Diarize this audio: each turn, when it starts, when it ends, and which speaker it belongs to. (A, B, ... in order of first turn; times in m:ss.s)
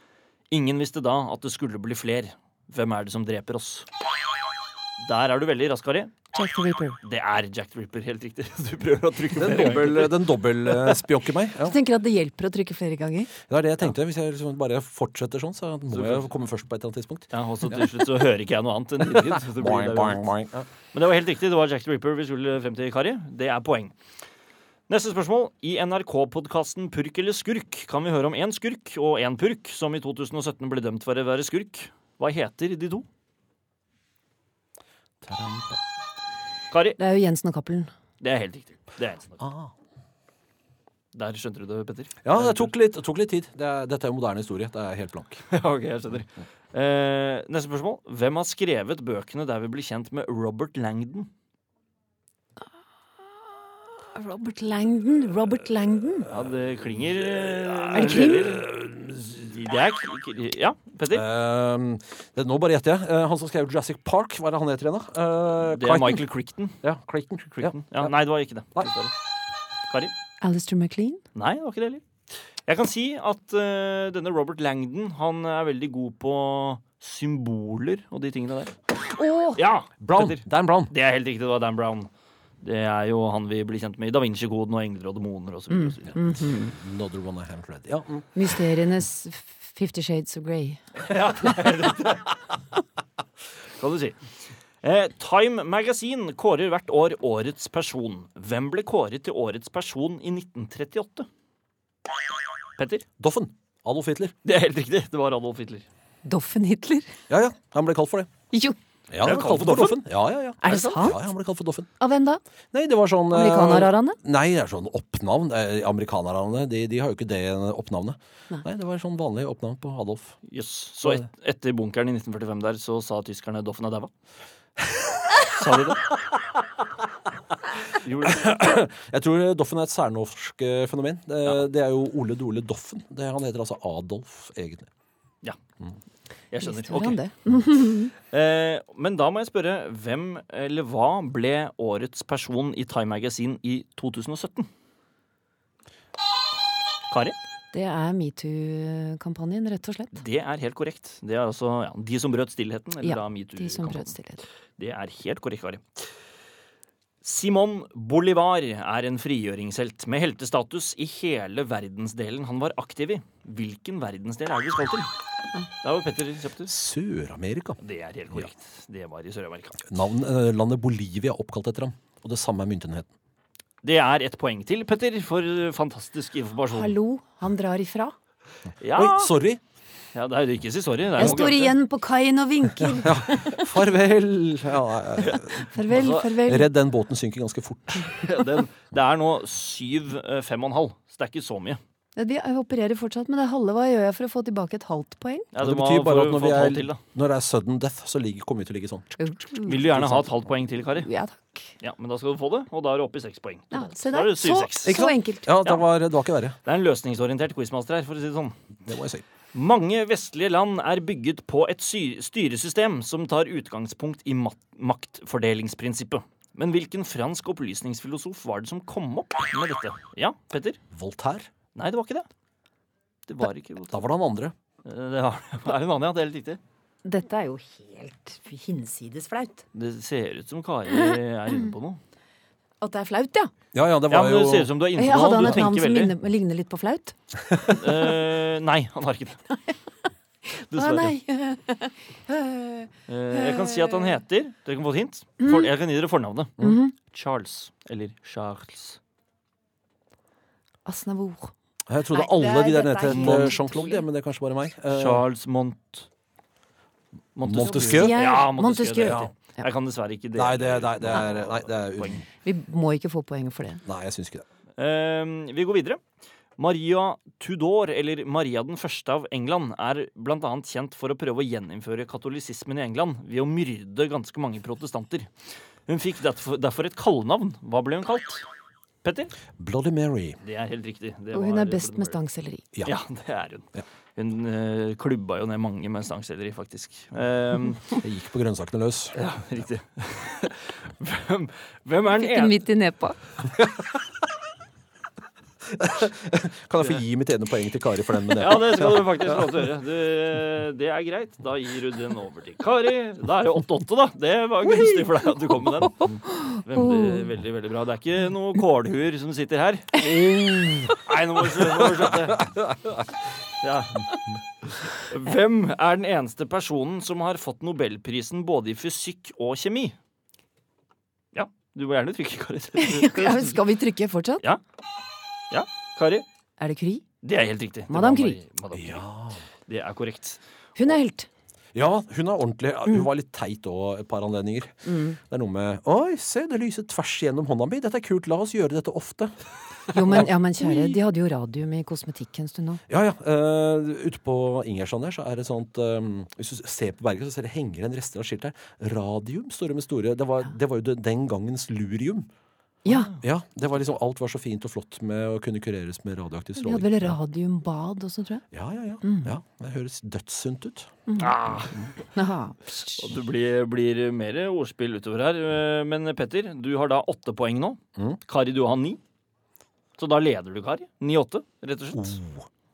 0:00.5-0:03.9 A
0:05.0-0:06.2 A
0:06.3-0:07.0 B
0:07.0-0:10.1 A
0:09.4-0:11.8 C
0:11.6-0:13.3 B
0:13.5-0:17.9 C
0:15.9-0:16.3 A
0:17.3-0:20.3 A
0:19.1-0:20.7 C
0:20.9-0:23.9 A
0:24.9-0:33.1 A
0:35.2-0:35.8 C
0:36.7-0:37.0 A
0:37.0-0:37.9 B
0:38.2-0:39.4 A
0:39.4-0:39.7 C
0:41.1-0:42.7 A
0:42.2-0:45.4 C
0:45.5-0:51.3 A
0:54.1-0:56.3 B
0:56.3-0:58.7 A
0:57.2-0:59.5 C
0:57.9-0:58.6 B
0:59.5-1:01.2 A
1:01.1-1:06.2 C
1:05.7-1:06.8 A
1:06.8-1:08.1 C
1:07.6-1:09.1 A
1:10.4-1:11.2 B
1:11.4-1:12.0 A
1:12.7-1:18.8 A
1:19.1-1:19.6 B
1:19.6-1:22.1 A
1:20.0-1:20.9 C
1:22.6-1:26.2 A
1:25.7-1:26.8 B
1:26.5-1:28.4 C
1:28.4-1:30.8 B
1:31.0-1:32.4 A
1:33.8-1:41.3 A
1:42.8-1:43.0 A
1:43.2-1:44.4 C
1:44.4-1:45.9 A
1:46.2-1:47.2 B
1:47.3-1:48.3 C
1:48.5-1:48.8 B
1:49.1-1:51.9 C
1:49.2-1:50.0 A
1:50.6-1:51.3 B
1:52.0-1:52.4 B
1:52.7-2:00.4 C
1:53.3-1:54.2 B
2:00.5-2:04.1 A
2:04.9-2:05.4 C
2:05.5-2:06.1 A
2:08.0-2:08.6 A
2:08.2-2:14.9 C
2:16.5-2:17.2 A
2:16.6-2:18.1 B
2:18.3-2:24.7 A
2:27.1-2:27.4 A
2:27.7-2:30.2 B
2:30.2-2:34.1 A
2:33.0-2:34.4 B
2:34.8-2:35.8 A
2:37.2-2:45.1 A
2:45.8-2:46.7 A
2:46.7-2:47.8 C
2:47.8-2:49.9 A
2:49.9-2:53.1 C
2:53.8-2:57.0 A
2:56.7-2:58.1 B
2:58.8-2:59.3 A
2:59.0-2:59.6 C
3:00.2-3:01.7 A
3:01.2-3:03.7 B
3:02.8-3:05.7 C
3:05.2-3:06.3 A
3:05.6-3:06.7 B
3:06.4-3:08.3 C
3:08.1-3:11.8 A
3:12.2-3:15.5 B
3:15.5-3:17.0 A
3:15.6-3:19.1 C
3:19.2-3:20.3 B
3:19.7-3:21.1 A
3:21.0-3:21.7 B
3:21.8-3:25.0 A
3:23.7-3:25.5 B
3:24.8-3:26.6 C
3:26.6-3:28.6 A
3:28.9-3:29.2 C
3:29.5-3:40.8 A
3:40.9-3:41.5 C
3:41.8-3:42.3 A
3:43.3-3:44.0 A
3:43.9-3:44.5 C
3:44.8-3:46.6 A
3:47.0-3:49.6 B
3:49.7-3:52.0 A
3:52.8-3:53.5 B
3:53.7-3:54.7 C
3:54.1-3:56.1 A
3:55.0-3:57.2 B
3:57.7-3:59.4 A
4:00.6-4:04.1 B
4:00.7-4:01.1 A
4:03.1-4:09.0 A
4:05.4-4:05.7 B
4:06.6-4:06.9 B
4:10.9-4:11.5 B
4:11.9-4:15.2 C
4:12.1-4:14.0 B
4:13.1-4:13.5 A
4:14.9-4:16.1 A
4:17.4-4:22.2 A
4:17.4-4:18.2 C
4:17.6-4:19.2 B
4:19.0-4:19.3 C
4:20.4-4:22.2 C
4:22.4-4:23.8 B
4:23.9-4:24.4 C
4:24.8-4:26.0 A
4:26.6-4:35.3 A
4:35.9-4:38.4 A
4:39.0-4:39.3 A
4:39.6-4:40.4 C
4:40.4-4:42.2 A
4:41.3-4:42.7 B
4:42.8-4:48.0 A
4:48.0-4:49.2 C
4:49.2-4:52.6 A
4:52.2-4:53.2 B
4:53.6-4:54.0 C
4:55.7-4:59.7 C
4:58.4-5:06.0 A
5:06.3-5:07.1 B
5:06.6-5:12.5 A
5:11.6-5:12.7 C
5:13.6-5:14.1 A
5:14.9-5:20.0 A
5:21.3-5:23.6 A
5:22.8-5:24.4 B
5:25.5-5:26.2 A
5:26.6-5:27.0 B
5:27.2-5:29.0 A
5:27.9-5:28.4 B
5:28.7-5:29.4 C
5:29.7-5:30.4 A
5:30.8-5:31.3 B
5:31.7-5:39.3 C
5:34.8-5:35.2 B
5:39.9-5:40.2 C
5:39.9-5:42.8 B
5:42.9-5:52.3 C
5:52.8-5:53.1 B
5:53.2-5:57.2 C
5:56.6-5:58.4 B
5:58.5-6:00.9 C
5:59.0-5:59.3 B
6:01.1-6:01.3 B
6:01.2-6:01.8 A
6:02.1-6:03.0 B
6:03.0-6:09.0 A
6:10.0-6:12.2 A
6:11.9-6:12.5 C